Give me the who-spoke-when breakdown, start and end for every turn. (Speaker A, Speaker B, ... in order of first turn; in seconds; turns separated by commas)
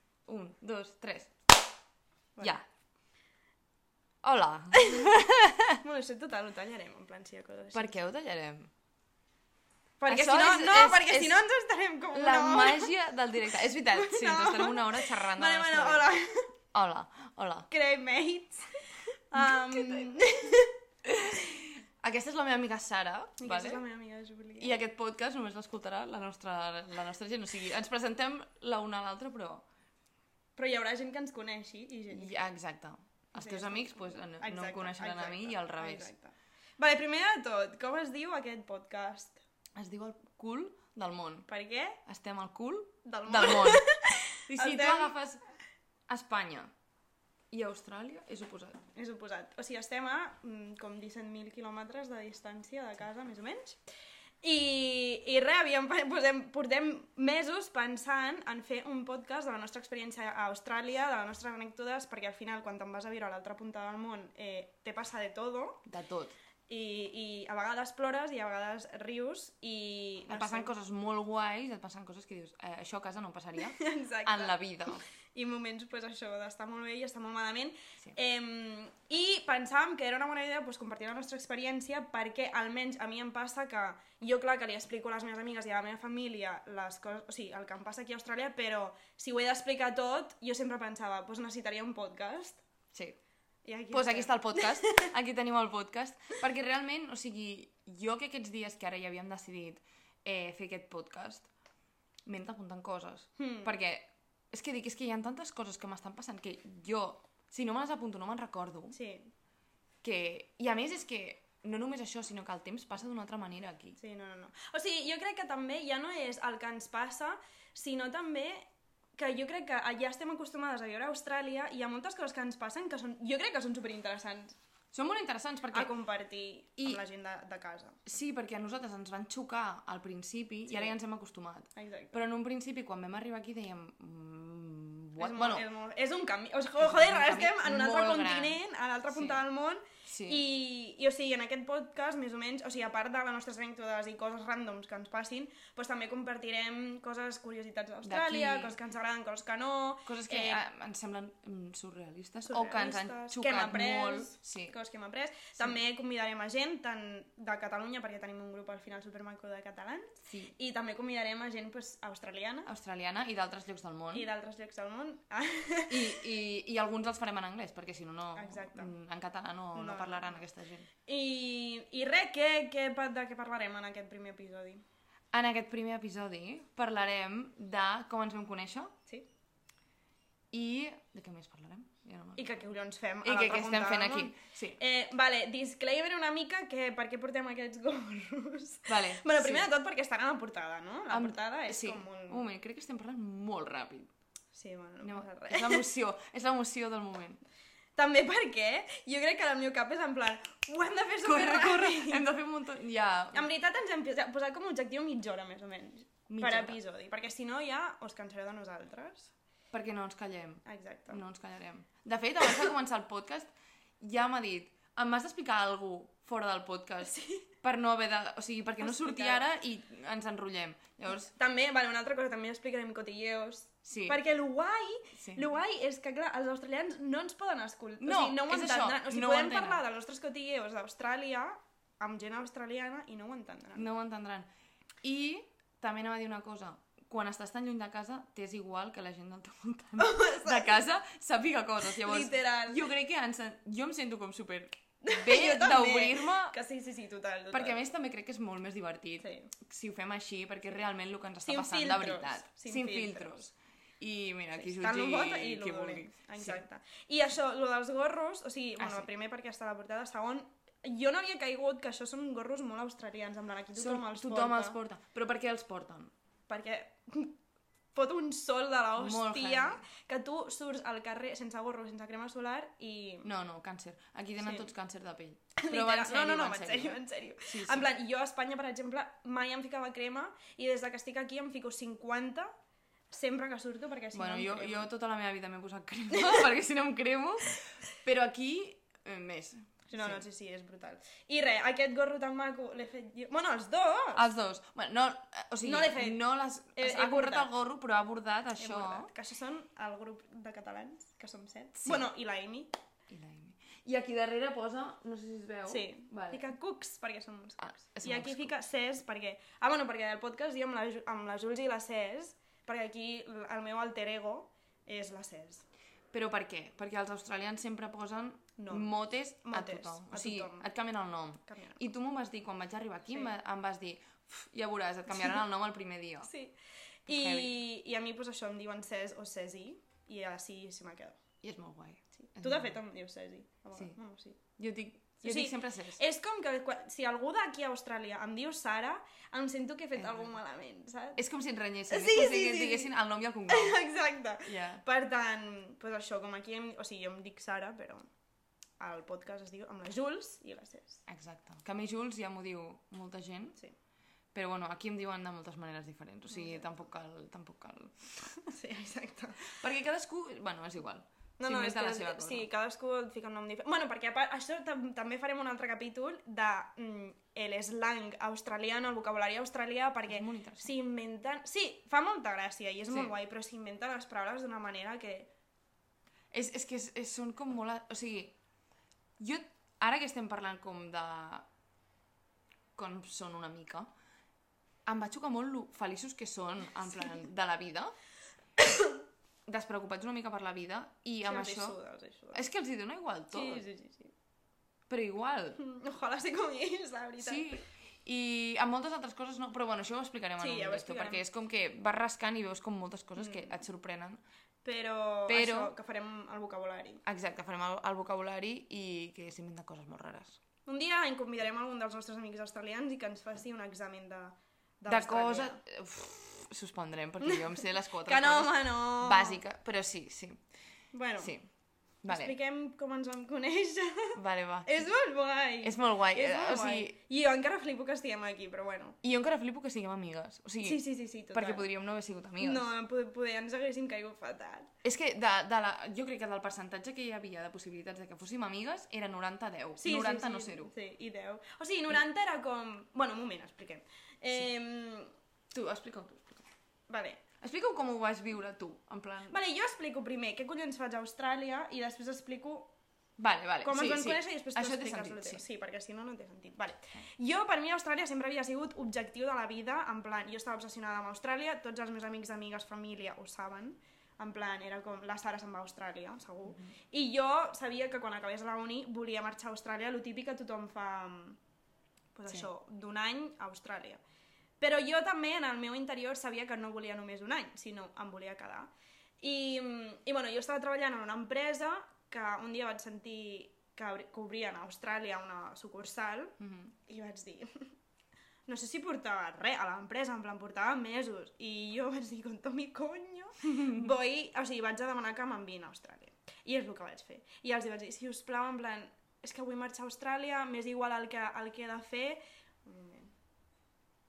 Speaker A: 0.3-1.3, Speaker A: 4.2-5.8, Speaker B: 4.8-5.1, Speaker B: 5.8-7.9, Speaker A: 7.7-8.7, Speaker B: 10.0-12.9, Speaker A: 10.1-11.4, Speaker A: 12.1-16.1, Speaker B: 13.9-16.5, Speaker A: 16.7-17.7, Speaker B: 17.7-20.7, Speaker A: 19.3-20.1, Speaker A: 21.1-23.8, Speaker B: 23.4-24.7, Speaker A: 24.6-29.6, Speaker B: 30.6-32.4, Speaker A: 32.1-36.1, Speaker B: 33.3-39.4, Speaker A: 39.8-41.5, Speaker B: 41.5-42.0, Speaker A: 42.1-43.9, Speaker B: 43.0-45.1, Speaker A: 44.5-45.4, Speaker A: 46.1-46.7, Speaker A: 47.5-48.8, Speaker B: 49.0-53.8, Speaker B: 54.4-65.9, Speaker A: 65.9-66.3, Speaker B: 66.7-70.7, Speaker A: 70.3-75.0, Speaker B: 73.6-92.6, Speaker B: 93.7-95.1, Speaker A: 93.9-101.5, Speaker A: 102.3-109.0, Speaker B: 103.4-103.7, Speaker B: 108.9-109.3, Speaker A: 110.0-114.0, Speaker B: 114.0-118.7, Speaker B: 119.2-124.6, Speaker A: 124.9-125.9, Speaker B: 125.7-128.0, Speaker A: 128.1-135.7, Speaker B: 130.7-131.0, Speaker B: 131.8-132.2, Speaker B: 135.2-150.6, Speaker A: 136.8-138.6, Speaker A: 139.1-139.4, Speaker A: 140.1-140.4, Speaker A: 148.0-148.8, Speaker A: 150.1-154.8, Speaker B: 152.4-162.7, Speaker A: 160.3-160.5, Speaker A: 162.7-164.3, Speaker B: 164.1-166.2, Speaker A: 165.9-170.9, Speaker B: 168.4-168.9, Speaker B: 169.8-170.4, Speaker B: 171.1-174.8, Speaker A: 175.3-178.9, Speaker A: 180.5-182.6, Speaker B: 182.4-192.4, Speaker A: 183.2-184.8, Speaker A: 188.9-189.7, Speaker A: 191.1-194.1, Speaker B: 194.5-195.9, Speaker A: 195.0-197.4, Speaker B: 198.0-202.2, Speaker A: 201.2-203.5, Speaker B: 203.3-209.3, Speaker A: 206.3-206.8, Speaker A: 209.7-221.3, Speaker B: 210.7-211.2, Speaker B: 217.0-217.5, Speaker B: 218.8-219.5, Speaker B: 221.1-233.9, Speaker A: 223.8-224.2, Speaker A: 225.2-225.5, Speaker A: 228.0-229.8, Speaker A: 233.8-234.5, Speaker A: 235.0-246.6, Speaker B: 240.0-240.8, Speaker B: 242.0-242.9, Speaker B: 245.0-247.8, Speaker A: 247.5-256.6, Speaker B: 249.2-249.5, Speaker B: 251.4-253.4, Speaker B: 254.5-264.8, Speaker A: 258.8-259.1, Speaker A: 263.8-266.1, Speaker B: 266.5-267.4, Speaker B: 267.9-273.3, Speaker A: 269.0-269.8, Speaker A: 273.2-277.9, Speaker B: 274.4-274.7, Speaker B: 275.6-282.5, Speaker B: 283.1-284.9, Speaker A: 284.1-290.2, Speaker B: 286.1-286.4, Speaker B: 289.9-294.3, Speaker A: 294.1-299.1, Speaker B: 295.6-296.2, Speaker B: 296.8-297.5, Speaker B: 298.6-302.7, Speaker A: 303.1-306.5, Speaker B: 305.7-315.6, Speaker A: 307.6-308.5, Speaker A: 316.1-326.3, Speaker B: 318.6-318.9, Speaker B: 319.4-320.7, Speaker B: 321.5-321.8, Speaker B: 326.2-326.6, Speaker B: 327.1-331.2, Speaker A: 327.1-327.6, Speaker A: 331.4-332.8, Speaker B: 332.2-334.4, Speaker A: 334.6-336.0, Speaker B: 335.2-341.2, Speaker A: 340.0-340.3, Speaker A: 341.2-343.8, Speaker B: 341.9-342.9, Speaker B: 343.5-348.1, Speaker A: 344.4-344.8, Speaker B: 348.8-351.1, Speaker A: 351.1-353.6, Speaker A: 354.3-358.1, Speaker B: 356.3-356.8, Speaker B: 358.4-359.6, Speaker A: 359.5-362.5, Speaker B: 361.4-375.3, Speaker A: 370.1-370.7, Speaker A: 376.3-378.4, Speaker A: 379.2-381.5, Speaker A: 382.8-383.9, Speaker A: 384.9-387.9, Speaker B: 388.6-389.0, Speaker A: 389.5-391.8, Speaker B: 391.2-392.4, Speaker A: 392.3-393.7, Speaker B: 393.3-394.1, Speaker A: 394.9-395.6, Speaker B: 395.6-397.6, Speaker A: 397.2-404.2, Speaker B: 400.4-401.2, Speaker B: 403.2-403.6, Speaker B: 404.6-407.0, Speaker A: 405.3-405.7, Speaker A: 407.1-410.4, Speaker B: 410.7-415.6, Speaker A: 414.9-420.4, Speaker B: 417.2-419.4, Speaker B: 420.9-421.3, Speaker A: 421.2-421.5, Speaker A: 422.0-422.3, Speaker B: 422.1-429.0, Speaker A: 424.2-424.9, Speaker A: 425.6-426.9, Speaker A: 429.0-432.7, Speaker B: 430.6-431.7, Speaker B: 432.4-434.7, Speaker A: 434.8-440.7, Speaker B: 439.8-445.1, Speaker A: 445.5-446.5, Speaker B: 446.9-447.2, Speaker A: 447.4-449.4, Speaker B: 449.3-452.7, Speaker A: 453.2-455.4, Speaker B: 453.6-471.4, Speaker B: 472.1-474.0, Speaker B: 474.6-478.7, Speaker B: 479.2-487.7, Speaker A: 486.4-486.7, Speaker B: 488.5-503.1